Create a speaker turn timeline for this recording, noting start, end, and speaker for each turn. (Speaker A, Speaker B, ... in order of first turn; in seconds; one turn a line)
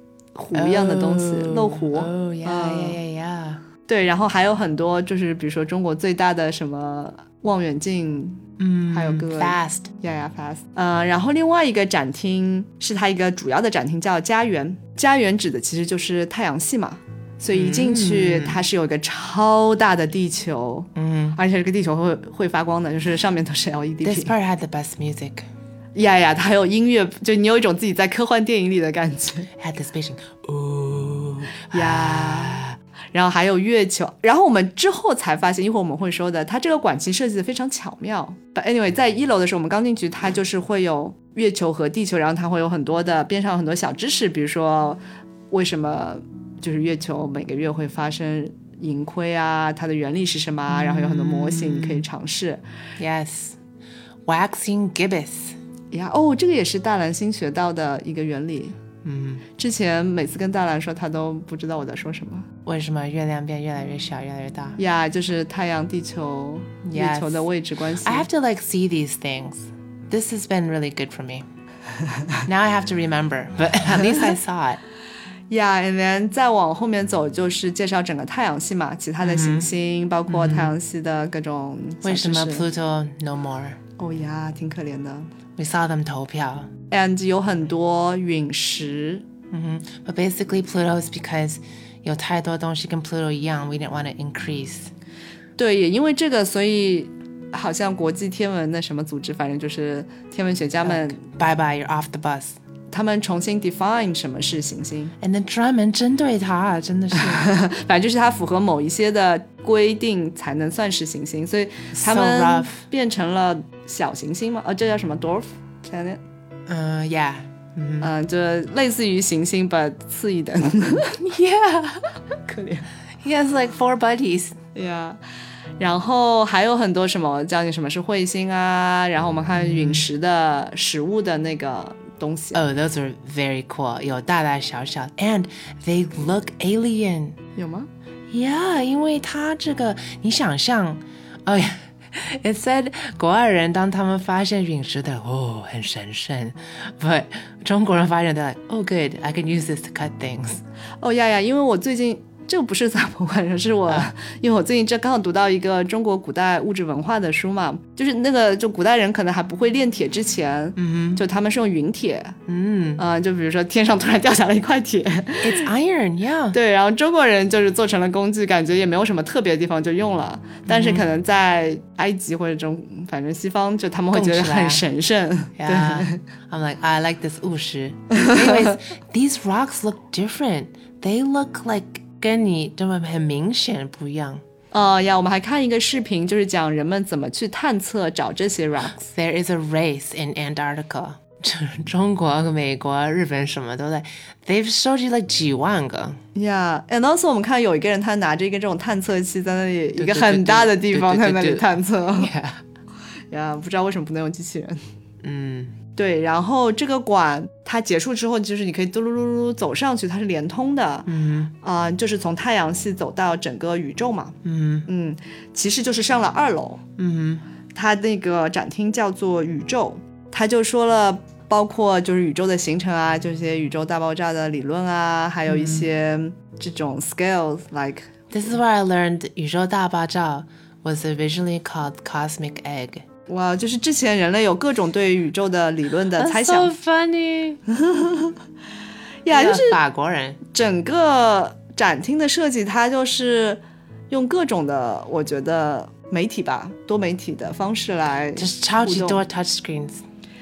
Speaker A: 0.3-3.0
Speaker B: 0.5-3.6
Speaker A: 3.9-8.4
Speaker B: 8.6-9.9
Speaker A: 8.9-24.3
Speaker B: 17.5-18.6
Speaker B: 20.9-21.4
Speaker B: 24.0-25.5
Speaker A: 25.9-29.5
Speaker B: 29.6-32.8
Speaker A: 31.7-32.6
Speaker A: 33.1-45.0
Speaker A: 45.5-52.6
Speaker B: 50.7-52.0
Speaker B: 53.0-53.6
Speaker B: 54.3-55.5
Speaker A: 55.9-58.7
Speaker B: 59.0-59.4
Speaker A: 59.6-62.5
Speaker B: 62.6-64.8
Speaker A: 64.8-68.3
Speaker B: 66.8-67.5
Speaker B: 68.0-71.4
Speaker B: 72.5-74.8
Speaker A: 75.5-82.6
Speaker B: 79.2-79.7
Speaker B: 80.3-80.7
Speaker B: 82.0-83.8
Speaker A: 84.0-85.3
Speaker B: 85.6-86.7
Speaker A: 86.9-89.2
Speaker B: 89.5-94.9
Speaker A: 95.6-101.2
Speaker B: 100.8-102.6
Speaker A: 102.9-105.1
Speaker B: 105.2-107.5
Speaker A: 107.2-116.2
Speaker B: 111.9-112.8
Speaker B: 116.7-118.1
Speaker A: 118.0-121.2
Speaker B: 121.2-122.0
Speaker A: 122.5-122.9
Speaker B: 123.2-124.5
Speaker A: 124.7-125.2
Speaker A: 125.8-132.6
Speaker B: 129.6-130.1
Speaker B: 132.5-137.4
Speaker A: 137.6-137.9
Speaker B: 138.3-150.6
Speaker A: 151.0-162.4
Speaker B: 160.8-161.2
Speaker B: 162.5-163.0
Speaker A: 163.0-165.7
Speaker B: 165.4-166.6
Speaker A: 166.5-176.2
Speaker B: 170.7-171.0
Speaker B: 174.1-174.8
Speaker B: 175.6-184.4
Speaker A: 178.2-178.7
Speaker A: 184.7-189.1
Speaker B: 189.0-196.2
Speaker A: 196.3-202.3
Speaker B: 199.9-202.6
Speaker A: 203.3-204.8
Speaker B: 205.2-205.7
Speaker A: 205.9-211.1
Speaker B: 211.1-211.5
Speaker A: 211.6-216.8
Speaker B: 214.4-214.9
Speaker B: 217.0-217.4
Speaker A: 217.7-228.1
Speaker B: 225.5-225.9
Speaker B: 228.3-233.0
Speaker A: 233.3-236.7
Speaker B: 236.2-237.6
Speaker A: 237.7-238.3
Speaker A: 239.2-239.8
Speaker B: 239.3-240.4
Speaker A: 240.5-249.2
Speaker B: 248.3-250.0